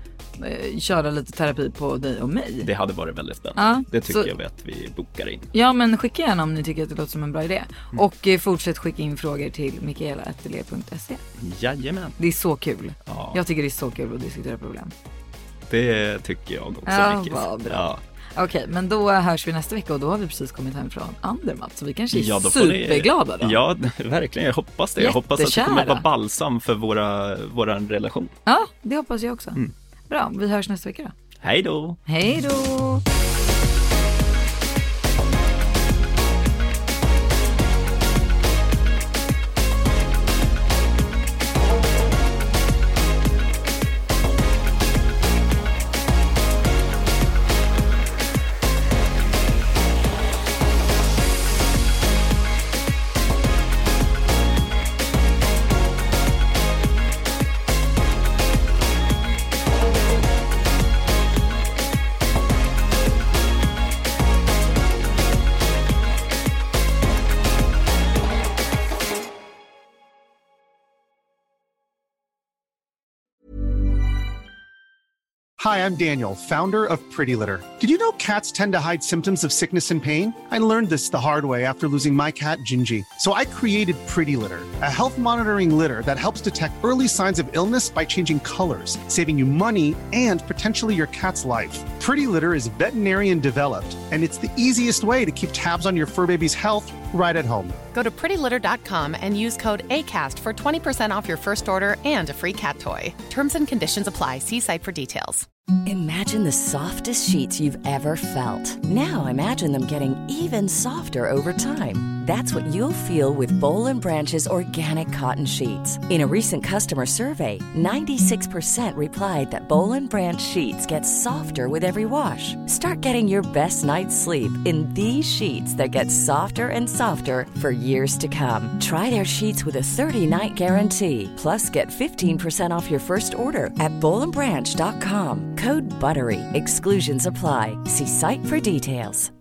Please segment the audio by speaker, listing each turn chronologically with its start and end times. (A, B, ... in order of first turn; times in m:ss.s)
0:00.4-0:02.7 A
0:02.6-0:05.5 B
0:03.6-0:04.3 A
0:05.5-0:11.2 A
0:11.4-0:12.2 B
0:12.2-0:14.9 A
0:13.0-0:13.4 B
0:15.7-0:18.0 B
0:16.9-0:23.6 A
0:22.1-0:28.4 B
0:25.0-0:26.0 A
0:28.5-0:29.6 A
0:30.1-0:31.1 A
0:31.4-0:32.0 B
0:32.0-0:33.0 A
1:15.6-1:37.8 C
1:37.9-1:45.4 D
1:45.8-2:19.3 E